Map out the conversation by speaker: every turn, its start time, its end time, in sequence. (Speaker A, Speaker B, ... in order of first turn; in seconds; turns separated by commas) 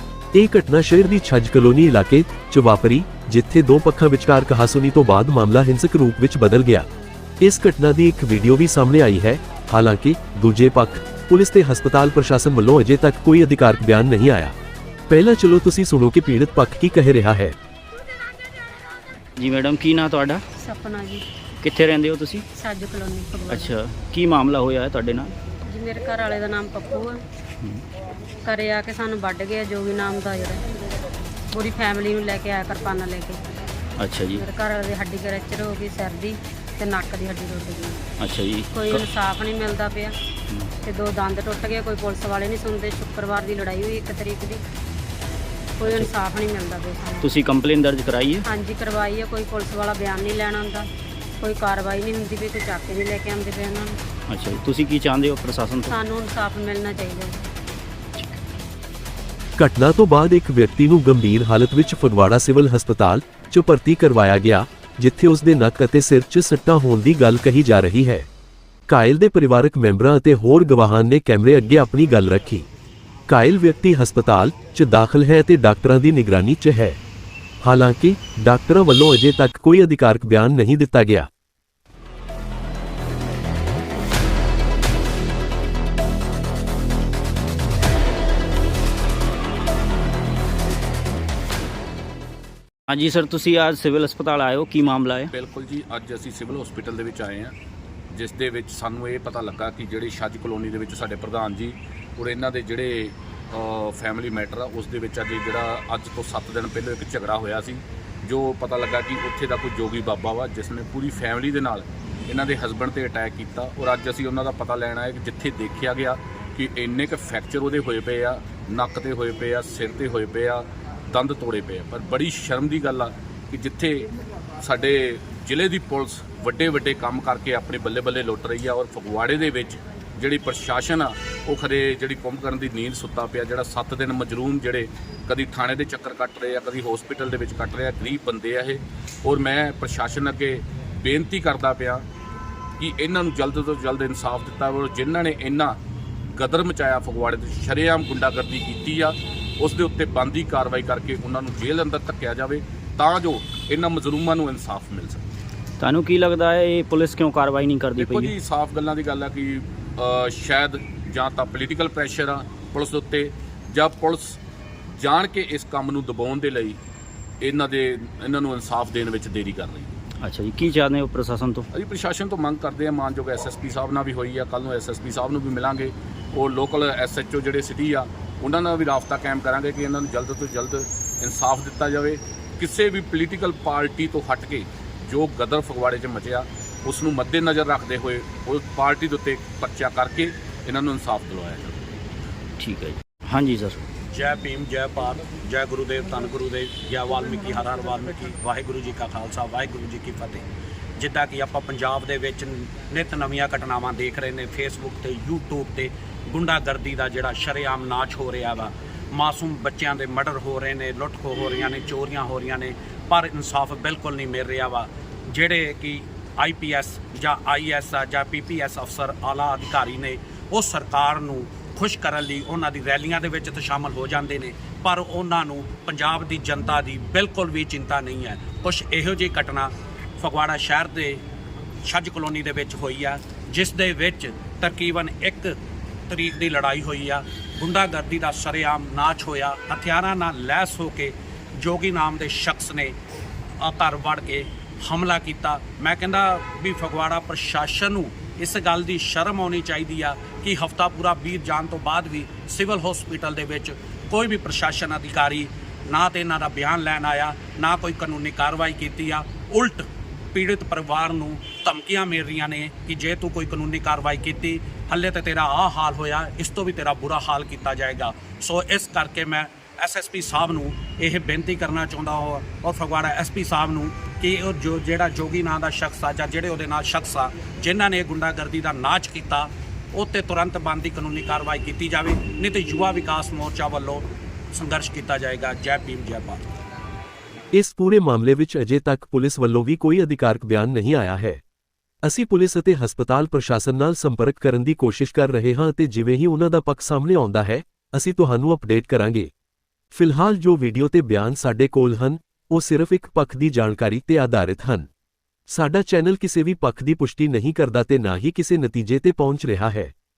Speaker A: 0.3-6.9, Speaker A: 7.4-14.5, Speaker A: 15.1-17.5, Speaker B: 19.4-20.4, Speaker C: 20.6-21.2, Speaker B: 21.6-22.4, Speaker C: 22.5-23.7, Speaker B: 23.5-25.4, Speaker C: 25.7-27.2, Speaker C: 28.4-30.6, Speaker C: 31.5-33.4, Speaker B: 34.0-34.5, Speaker C: 34.3-38.0, Speaker B: 38.2-39.1, Speaker C: 38.7-40.1, Speaker C: 40.8-44.6, Speaker C: 45.8-47.3, Speaker B: 45.8-46.2, Speaker B: 47.2-48.5, Speaker C: 48.4-50.9, Speaker C: 51.4-54.0, Speaker B: 54.3-56.0, Speaker C: 55.9-57.4, Speaker A: 59.6-68.3, Speaker A: 68.9-72.7, Speaker A: 73.3-77.0, Speaker A: 77.6-81.3, Speaker B: 92.9-95.3, Speaker D: 95.3-97.5, Speaker D: 98.1-124.1, Speaker D: 124.6-142.0, Speaker D: 142.8-145.8, Speaker D: 146.3-155.3, Speaker B: 155.8-158.3, Speaker D: 157.9-164.4, Speaker D: 164.9-166.8, Speaker D: 167.4-169.9, Speaker B: 170.2-171.7, Speaker D: 171.7-191.9, Speaker B: 192.6-193.9, Speaker E: 194.1-200.4, Speaker E: 201.0-231.2, Speaker E: 231.8-235.6, Speaker E: 236.1-242.9, Speaker E: 243.6-286.4, Speaker A: 287.5-291.4, Speaker A: 292.0-299.3, Speaker A: 299.9-304.9, Speaker A: 305.5-309.9